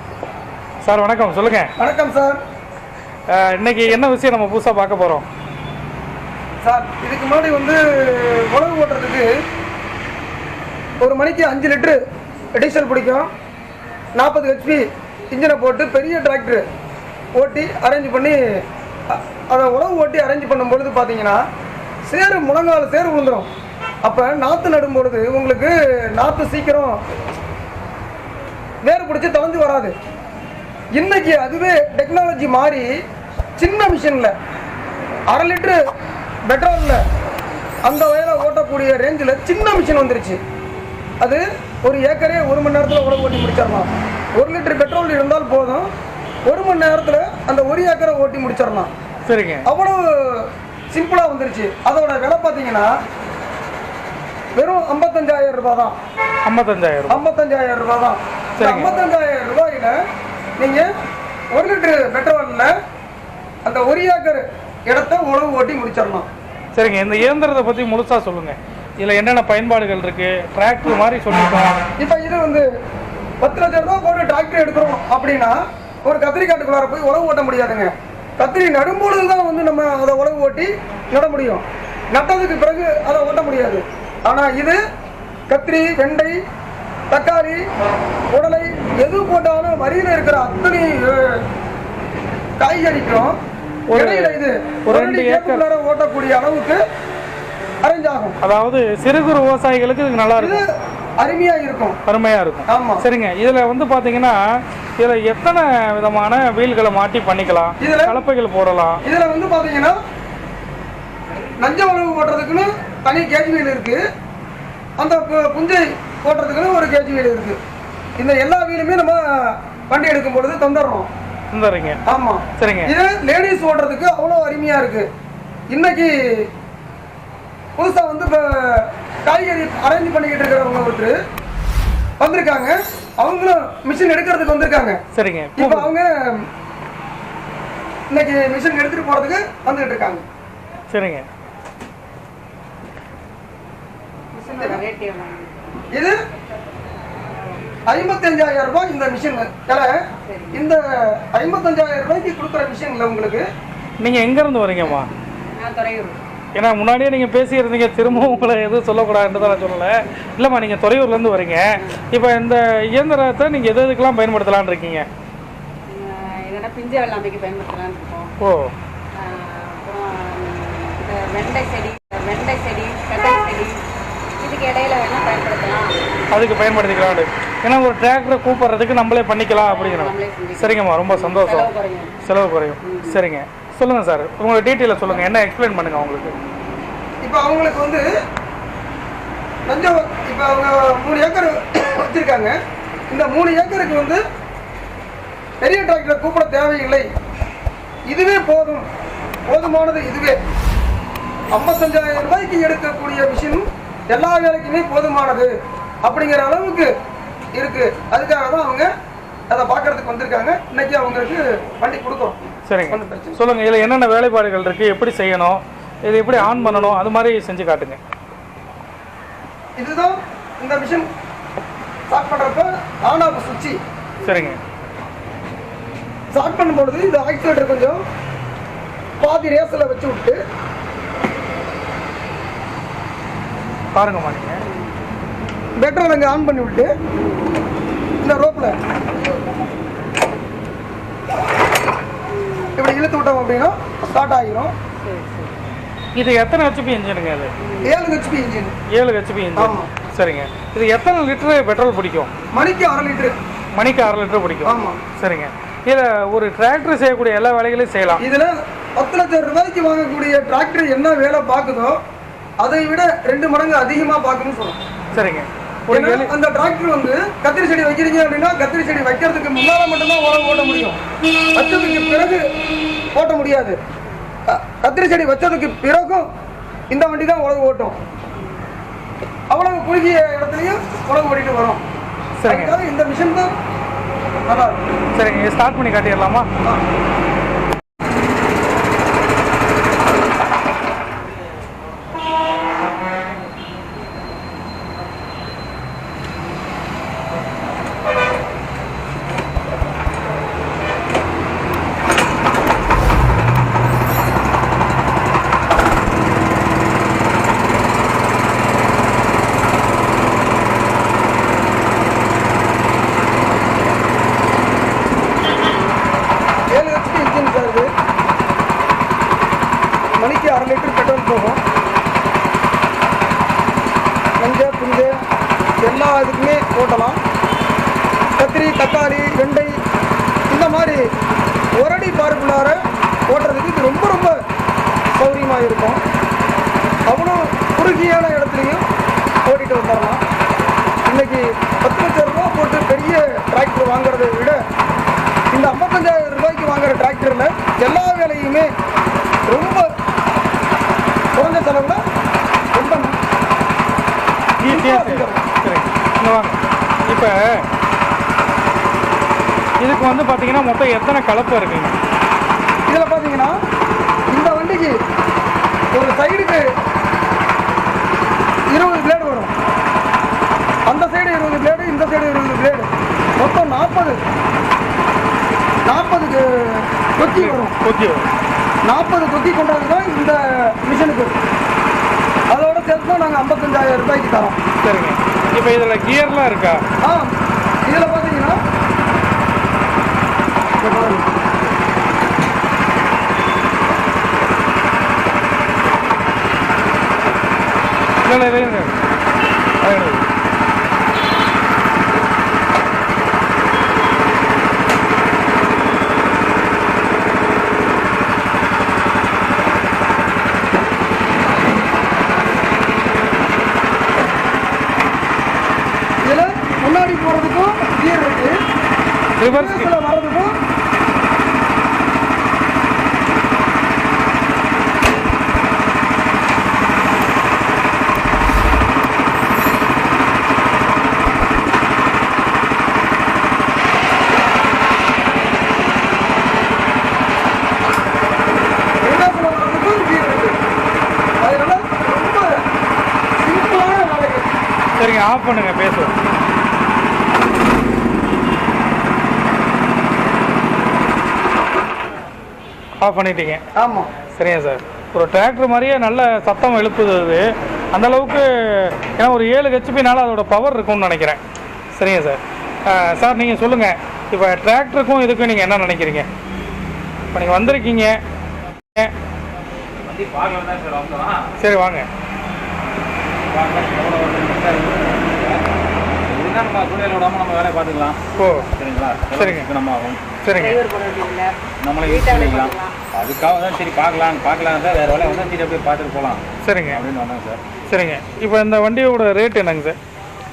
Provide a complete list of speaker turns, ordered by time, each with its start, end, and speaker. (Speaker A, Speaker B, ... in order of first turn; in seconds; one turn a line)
Speaker A: 0.8-1.7
Speaker B: 1.8-2.4
Speaker A: 3.3-5.3
Speaker B: 6.6-9.3
Speaker B: 11.0-12.0
Speaker B: 12.6-13.3
Speaker B: 14.2-16.6
Speaker B: 17.4-18.4
Speaker B: 19.1-21.4
Speaker B: 22.1-23.5
Speaker B: 24.0-27.0
Speaker B: 28.8-29.9
Speaker B: 30.9-32.9
Speaker B: 33.6-34.3
Speaker B: 35.3-35.8
Speaker B: 36.5-37.0
Speaker B: 37.9-40.4
Speaker B: 41.2-45.9
Speaker B: 46.5-48.9
Speaker A: 49.3-49.7
Speaker B: 49.7-52.9
Speaker B: 54.6-56.0
Speaker A: 56.4-57.2
Speaker B: 57.1-60.0
Speaker A: 58.6-58.9
Speaker B: 60.6-60.9
Speaker B: 61.5-62.7
Speaker B: 63.6-66.3
Speaker A: 66.7-71.8
Speaker B: 72.0-72.7
Speaker B: 73.4-84.8
Speaker B: 85.5-86.4
Speaker B: 87.1-87.6
Speaker B: 88.3-91.4
Speaker B: 92.6-93.3
Speaker A: 93.9-95.6
Speaker B: 94.0-96.8
Speaker B: 97.8-98.4
Speaker A: 98.4-100.6
Speaker B: 100.4-100.7
Speaker B: 101.2-102.0
Speaker A: 102.1-104.4
Speaker B: 102.7-103.0
Speaker A: 105.0-109.0
Speaker B: 107.8-108.2
Speaker B: 109.0-110.0
Speaker B: 111.6-114.0
Speaker B: 115.0-117.6
Speaker B: 118.2-121.1
Speaker A: 121.5-122.0
Speaker B: 122.1-125.1
Speaker A: 122.6-122.9
Speaker B: 125.7-126.5
Speaker B: 127.8-131.2
Speaker B: 132.2-135.0
Speaker A: 135.1-135.9
Speaker B: 135.6-136.4
Speaker B: 138.1-140.2
Speaker A: 140.9-141.3
Speaker C: 144.3-145.8
Speaker B: 145.9-146.2
Speaker C: 147.3-147.6
Speaker B: 147.9-150.0
Speaker C: 150.2-150.6
Speaker B: 150.5-153.5
Speaker A: 154.0-155.1
Speaker C: 155.6-156.2
Speaker A: 156.6-165.1
Speaker C: 165.9-168.3
Speaker A: 168.4-168.7
Speaker C: 169.2-173.8
Speaker C: 174.4-176.0
Speaker A: 176.3-181.7
Speaker C: 179.6-182.1
Speaker A: 182.2-186.4
Speaker C: 182.8-183.2
Speaker B: 187.2-188.1
Speaker B: 189.7-192.6
Speaker B: 193.1-194.2
Speaker B: 195.6-197.1
Speaker B: 198.1-198.9
Speaker B: 199.5-200.4
Speaker B: 201.5-205.5
Speaker B: 206.0-206.9
Speaker B: 207.6-208.9
Speaker B: 209.5-213.4
Speaker A: 212.7-218.0
Speaker B: 219.8-221.1
Speaker B: 222.1-223.8
Speaker C: 224.2-224.6
Speaker A: 224.2-224.6
Speaker B: 226.3-228.0
Speaker B: 229.2-230.4
Speaker A: 233.9-234.6
Speaker C: 234.7-234.9
Speaker B: 235.8-236.9
Speaker C: 237.1-237.6
Speaker B: 238.2-238.8
Speaker C: 242.3-242.8
Speaker B: 242.8-244.7
Speaker C: 245.0-245.6
Speaker A: 246.2-247.5
Speaker C: 247.6-247.9
Speaker B: 247.8-248.8
Speaker A: 248.9-252.3
Speaker B: 249.6-249.9
Speaker B: 252.5-253.4
Speaker A: 253.7-258.2
Speaker B: 254.7-255.0
Speaker B: 258.2-262.0
Speaker B: 262.6-264.8
Speaker A: 265.1-266.3
Speaker B: 265.9-271.0
Speaker B: 271.6-272.4
Speaker B: 273.1-273.8
Speaker B: 274.5-276.3
Speaker B: 276.9-278.0
Speaker B: 279.5-281.8
Speaker A: 282.4-282.8
Speaker B: 282.5-283.5
Speaker B: 284.5-284.8
Speaker A: 285.1-286.5
Speaker B: 316.7-317.9
Speaker B: 320.2-321.6
Speaker B: 324.4-325.1
Speaker B: 325.8-327.2
Speaker B: 328.4-329.7
Speaker B: 330.5-331.0
Speaker B: 331.8-334.4
Speaker B: 335.1-336.0
Speaker B: 337.1-338.9
Speaker B: 339.5-340.2
Speaker B: 341.1-344.6
Speaker B: 345.5-348.7
Speaker B: 349.5-349.9
Speaker B: 351.4-352.0
Speaker B: 352.7-353.1
Speaker A: 354.6-357.7
Speaker B: 354.7-355.4
Speaker A: 359.8-362.0
Speaker B: 362.9-363.6
Speaker B: 364.3-365.0
Speaker B: 365.9-366.6
Speaker B: 368.7-369.5
Speaker B: 370.9-374.2
Speaker B: 375.9-377.8
Speaker A: 377.2-378.3
Speaker B: 378.9-381.3
Speaker B: 382.5-384.6
Speaker A: 384.8-386.8
Speaker B: 387.0-387.3
Speaker B: 387.9-388.6
Speaker B: 390.8-391.3
Speaker A: 398.2-398.9
Speaker A: 399.8-400.3
Speaker B: 416.2-418.5
Speaker A: 419.4-419.9
Speaker B: 419.5-420.5
Speaker B: 439.1-440.6
Speaker B: 441.4-442.6
Speaker B: 443.4-444.5
Speaker A: 445.0-446.2
Speaker A: 453.0-453.6
Speaker B: 453.8-454.1
Speaker A: 454.3-461.4
Speaker A: 461.9-466.3
Speaker A: 467.3-468.2
Speaker D: 470.0-471.5
Speaker A: 471.6-472.1
Speaker D: 473.5-475.7
Speaker D: 476.3-478.2
Speaker A: 478.4-478.7
Speaker D: 478.8-480.2
Speaker A: 479.4-479.7
Speaker A: 480.4-480.8
Speaker C: 480.6-483.0
Speaker D: 481.8-487.8
Speaker C: 485.2-485.6
Speaker A: 486.6-487.0
Speaker A: 487.9-490.0